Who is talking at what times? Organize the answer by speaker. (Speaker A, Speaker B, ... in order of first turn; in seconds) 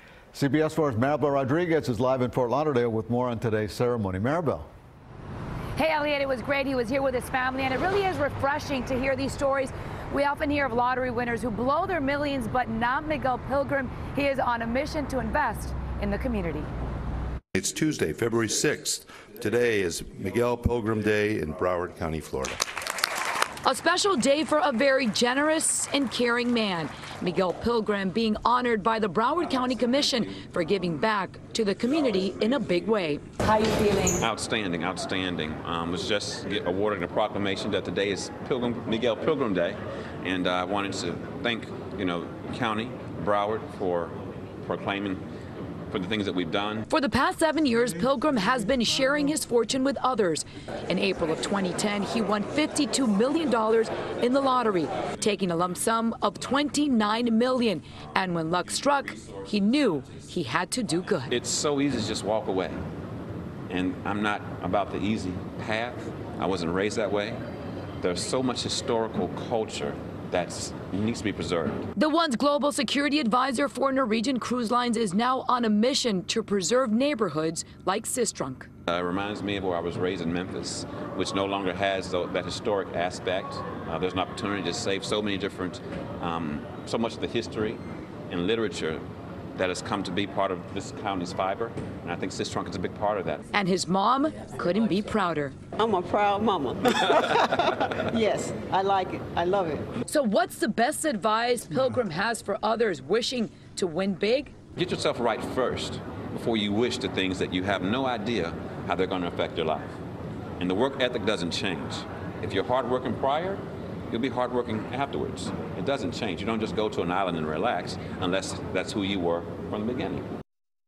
Speaker A: 0.3-4.7
Speaker B: 5.8-16.7, 23.6-34.2, 46.9-61.3, 72.0-78.7, 93.5-95.5, 100.1-104.5
Speaker C: 17.5-22.6
Speaker D: 34.2-45.2, 45.9-46.9, 58.7-60.2, 61.3-62.8, 63.7-67.4, 68.0-71.9, 78.9-89.0, 89.5-93.5, 104.8-109.9, 110.6-120.3
Speaker E: 95.8-99.8